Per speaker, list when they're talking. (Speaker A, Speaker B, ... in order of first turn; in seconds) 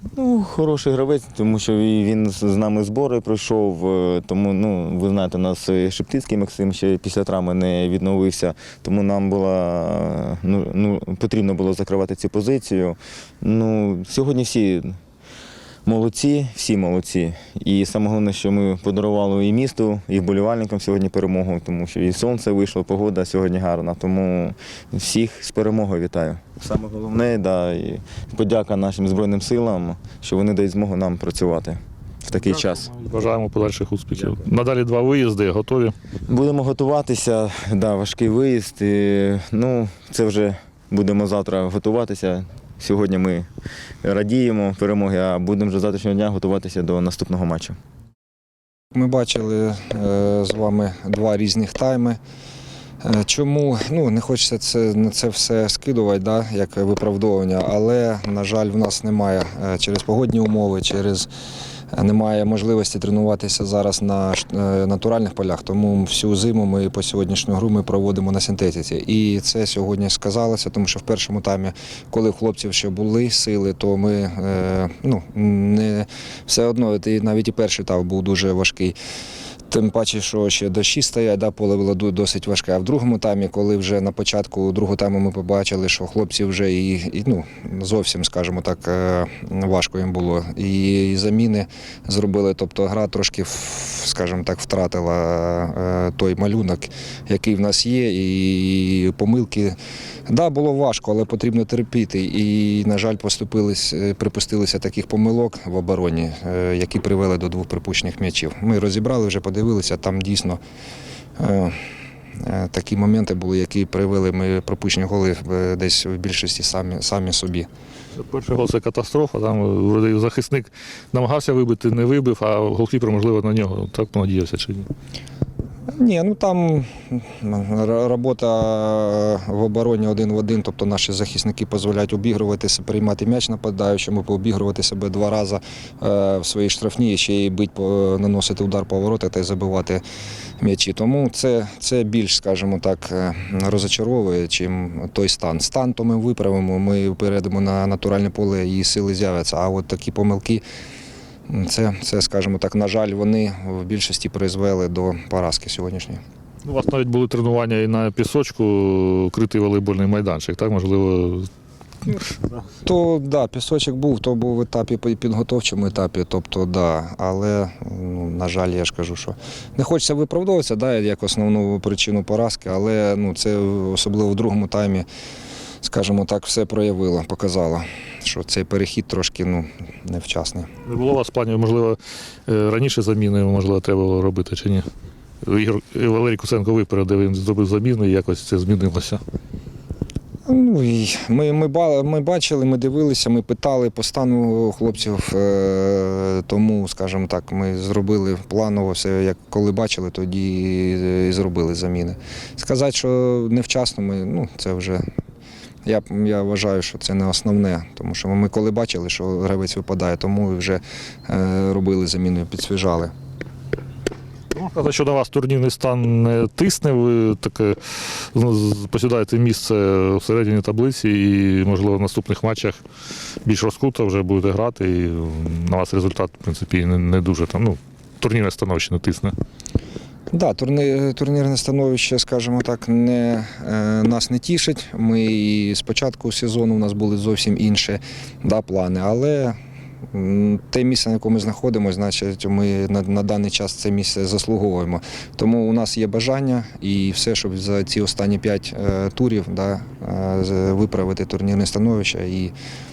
Speaker A: 0.2-15.0, 15.8-32.9, 36.3-43.5, 44.0-47.8
Speaker B: 32.8-35.9, 118.2-124.9, 156.7-161.5, 180.8-184.8, 185.4-189.2, 214.5-222.8, 223.4-229.3
Speaker C: 48.9-52.2, 53.0-61.3, 61.9-78.9, 79.7-99.8, 100.3-110.6, 111.4-111.8, 112.4-117.7, 125.9-140.0, 140.6-150.6, 151.5-156.2, 162.8-175.1, 175.8-180.7, 190.5-205.0, 205.8-213.1, 230.3-239.6, 240.1-252.5